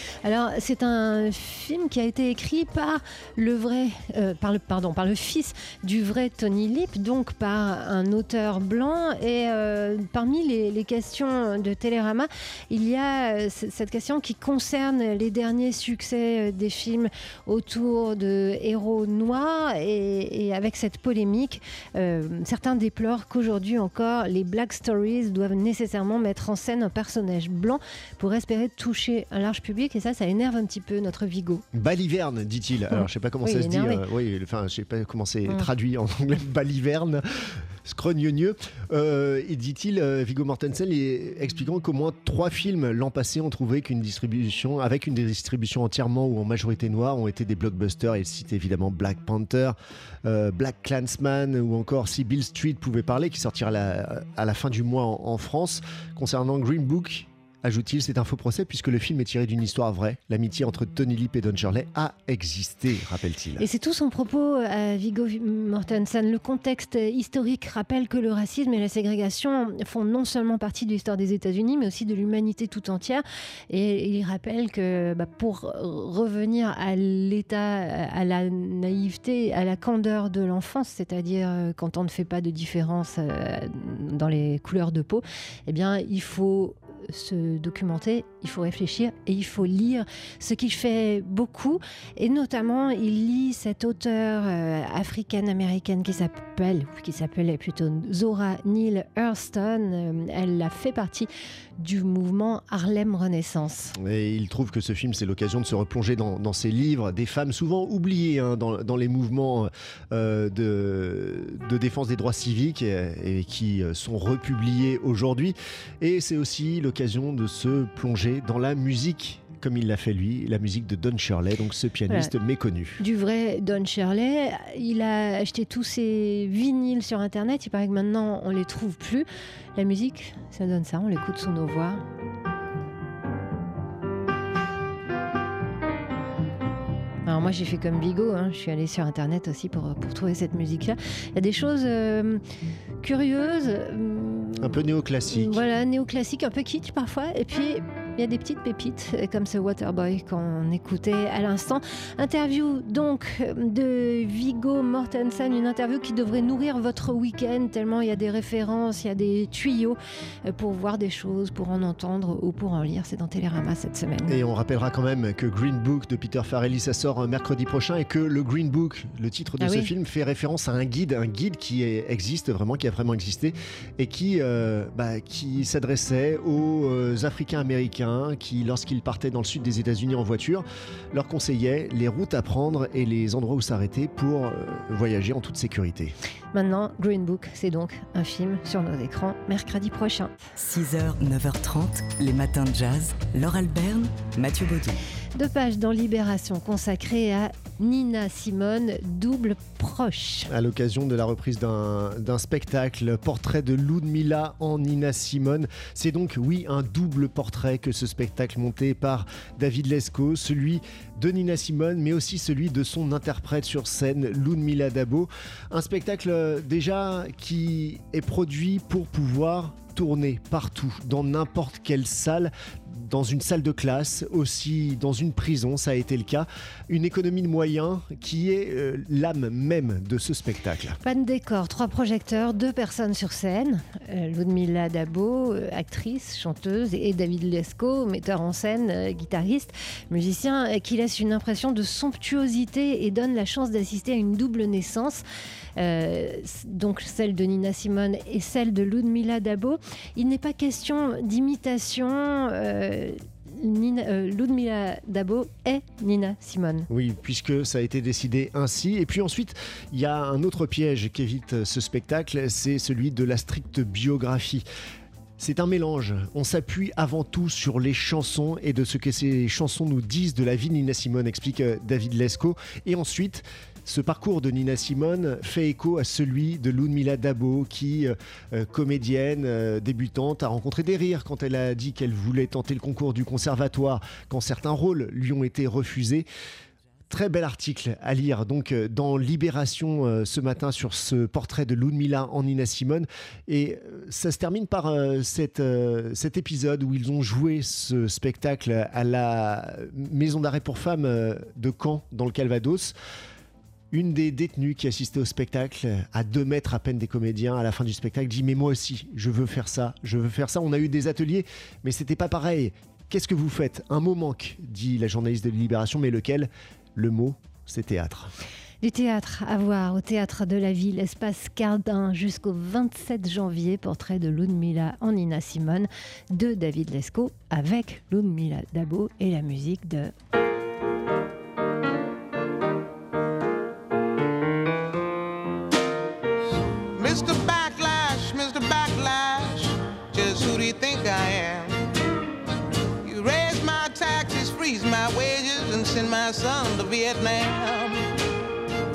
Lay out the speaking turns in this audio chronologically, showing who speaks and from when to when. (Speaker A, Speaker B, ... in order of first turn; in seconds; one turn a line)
Speaker A: 0.2-31.6
Speaker B: 31.7-63.6
Speaker A: 32.9-34.0
Speaker A: 63.6-104.0
Speaker B: 104.0-123.0
Speaker A: 123.0-129.3
Speaker A: 129.8-132.0
Speaker A: 137.3-142.4
Speaker A: 143.0-164.4
Speaker B: 144.6-145.6
Speaker B: 164.3-186.2
Speaker A: 169.6-169.9
Speaker A: 186.5-190.4
Speaker C: 190.6-195.0
Speaker A: 195.3-200.5
Speaker B: 200.5-231.0
Speaker A: 231.0-245.2
Speaker A: 245.8-256.9
Speaker B: 256.9-264.6
Speaker B: 265.4-286.3
Speaker B: 287.1-302.9
Speaker B: 303.9-318.3
Speaker A: 318.8-330.1
Speaker D: 336.9-341.8
Speaker D: 343.0-348.1